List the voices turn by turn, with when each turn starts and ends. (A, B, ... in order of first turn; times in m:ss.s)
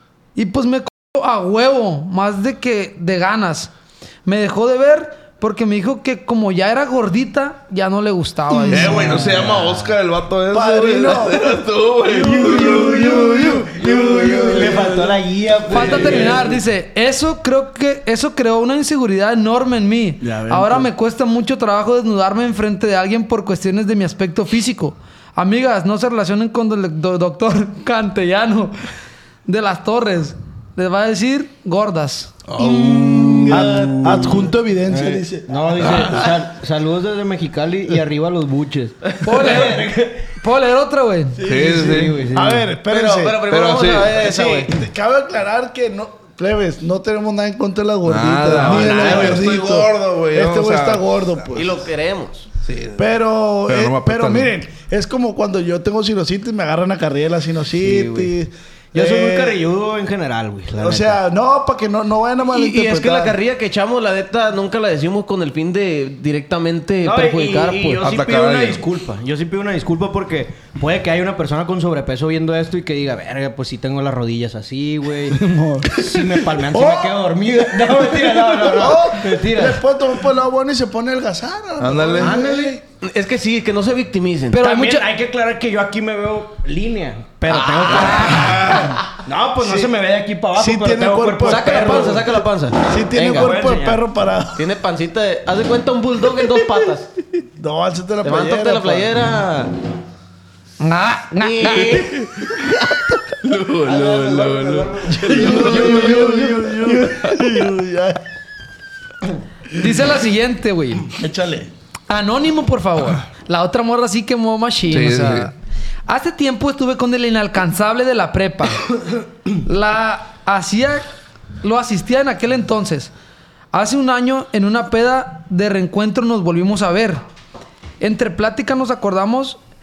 0:00.4-0:03.7 A
0:04.2-0:09.0 A
0:08.6-0:09.4 B
0:08.7-0:13.7 C
0:08.7-0:09.9 D
0:10.5-0:11.6 B
0:12.1-0:16.6 D
0:12.2-0:15.2 B
0:15.7-0:28.8 A
0:15.8-0:16.4 B
0:20.2-0:20.9 B
0:29.4-0:32.4 A
0:32.5-0:33.8 C
0:32.6-0:36.1 B
0:32.8-0:40.3 D
0:35.8-0:36.4 C
0:39.2-0:41.4 A
0:41.4-0:42.7 D
0:41.4-0:42.2 C
0:41.4-0:43.4 B
0:42.9-0:44.7 E
0:43.5-0:44.2 C
0:44.2-0:51.8 B
0:48.0-0:51.3 C
0:48.7-0:49.4 E
0:51.5-0:52.5 E
0:52.6-0:53.0 C
0:53.0-0:59.6 B
0:53.7-0:54.5 C
0:57.8-0:58.3 D
0:58.9-1:01.2 D
1:00.8-1:03.4 B
1:02.5-1:08.0 E
1:07.0-1:19.8 D
1:08.0-1:08.8 C
1:15.3-1:22.8 B
1:21.8-1:22.4 C
1:22.2-1:22.8 D
1:23.0-1:24.6 E
1:24.5-1:25.1 A
1:24.6-1:32.3 D
1:28.0-1:28.5 A
1:28.3-1:28.8 C
1:29.6-1:30.0 B
1:30.6-1:34.7 B
1:31.4-1:33.5 E
1:33.1-1:34.0 D
1:34.6-1:37.1 E
1:37.6-1:39.2 B
1:38.2-1:39.7 E
1:40.8-1:42.0 A
1:41.4-1:42.3 E
1:43.4-1:47.6 C
1:43.8-1:46.9 D
1:45.1-1:48.2 B
1:49.8-1:51.1 A
1:51.1-1:51.7 B
1:52.1-1:55.5 A
1:54.9-1:55.5 C
1:56.1-1:58.8 A
1:59.6-2:01.0 A
2:01.6-2:03.1 A
2:03.7-2:07.2 A
2:08.0-2:09.6 A